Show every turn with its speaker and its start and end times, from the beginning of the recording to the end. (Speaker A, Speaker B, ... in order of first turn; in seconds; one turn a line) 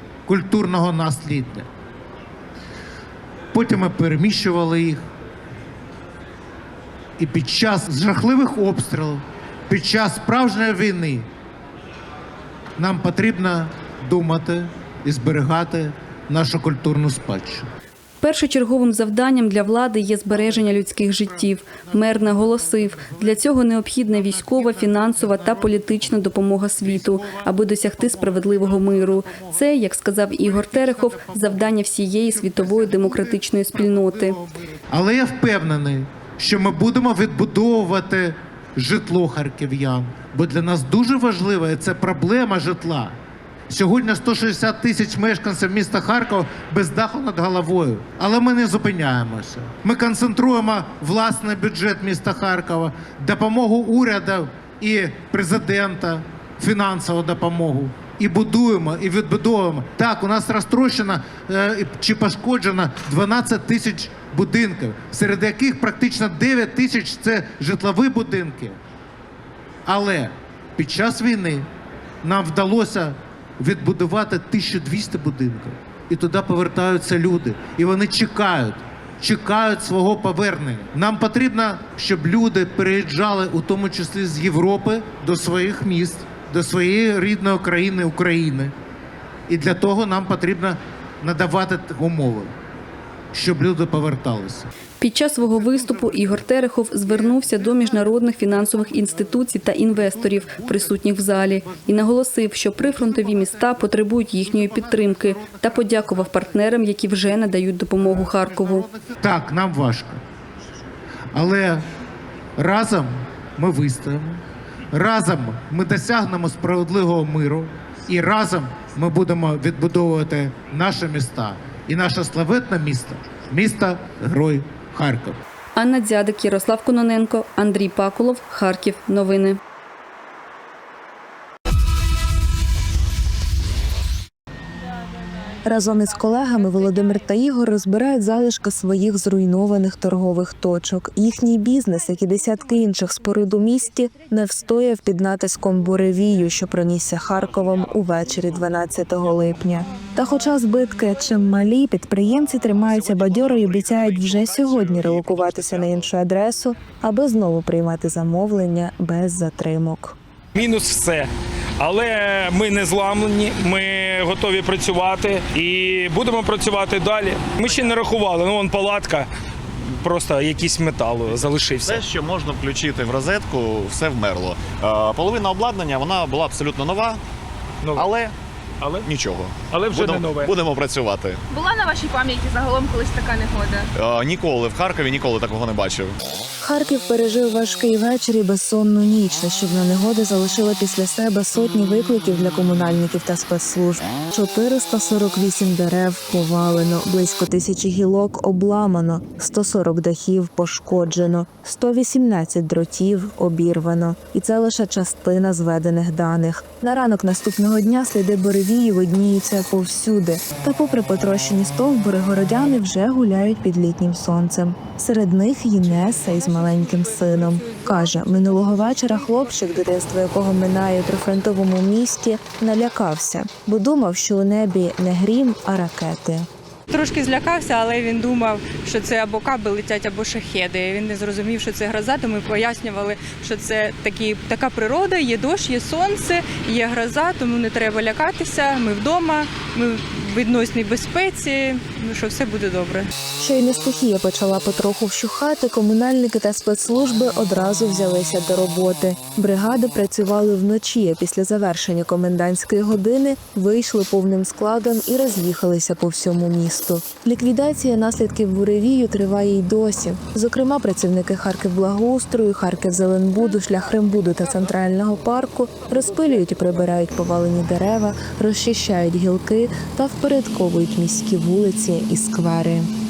Speaker A: 0.3-1.7
Speaker A: 3.5-5.0
Speaker A: 7.2-11.3
Speaker A: 12.8-17.7
Speaker B: 18.2-34.4
Speaker A: 21.3-23.4
Speaker A: 24.1-26.2
Speaker A: 26.8-29.6
Speaker A: 30.4-31.7
Speaker A: 32.3-43.2
Speaker A: 43.7-68.8
Speaker A: 69.9-71.7
Speaker A: 72.2-88.7
Speaker A: 89.5-92.5
Speaker A: 93.3-94.7
Speaker B: 95.0-108.9
Speaker A: 95.4-96.5
Speaker A: 97.0-99.3
Speaker A: 99.9-102.0
Speaker A: 102.9-103.9
Speaker A: 104.4-106.4
Speaker A: 108.1-110.2
Speaker A: 111.3-111.8
Speaker A: 112.6-125.4
Speaker B: 125.8-129.6
Speaker C: 135.7-160.2
Speaker D: 154.8-155.5
Speaker E: 160.6-169.3
Speaker E: 169.8-172.0
Speaker D: 171.8-177.2
Speaker E: 177.8-178.1
Speaker D: 177.9-178.3
Speaker E: 178.8-179.1
Speaker D: 179.0-181.4
Speaker E: 179.7-180.5
Speaker F: 181.5-183.9
Speaker D: 183.9-186.2
Speaker C: 186.6-226.5
Speaker G: 226.9-243.1
Speaker C: 243.4-272.9